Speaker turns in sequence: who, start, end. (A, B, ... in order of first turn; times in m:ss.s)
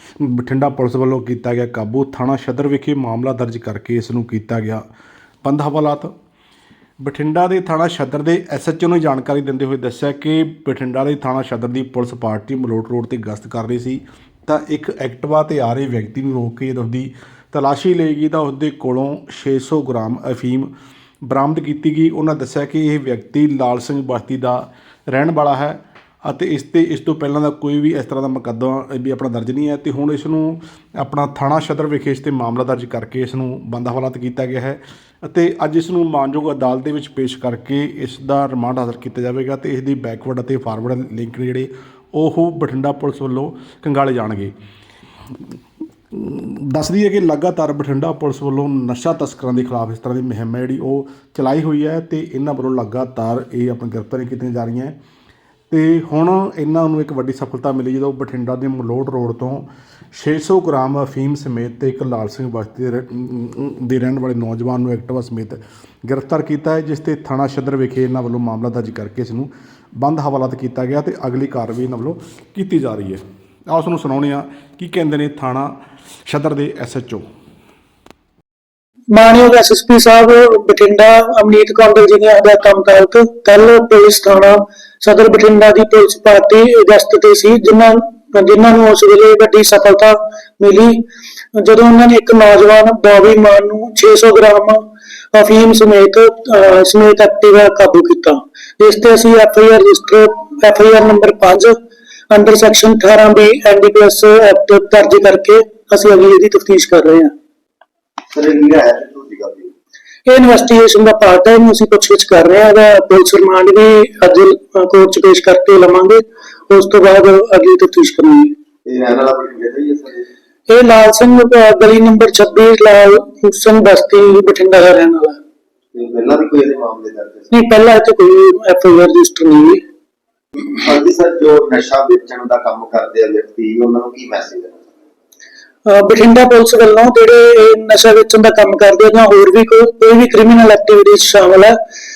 0:00.2-0:04.8 A
0:05.4-0:06.1 A
0:07.0-0:20.7 A
0:21.2-0:44.5 A
0:46.1-0:54.9 A
0:55.7-1:15.7 A
1:16.2-1:17.2 A
1:19.1-1:41.8 B
1:42.3-1:47.3 B
1:48.3-1:49.7 C
1:50.2-1:58.5 B
1:58.8-2:00.2 C
2:00.7-2:05.4 B
2:05.9-2:07.5 C
2:07.5-2:09.8 B
2:10.7-2:14.8 C
2:15.8-2:21.8 B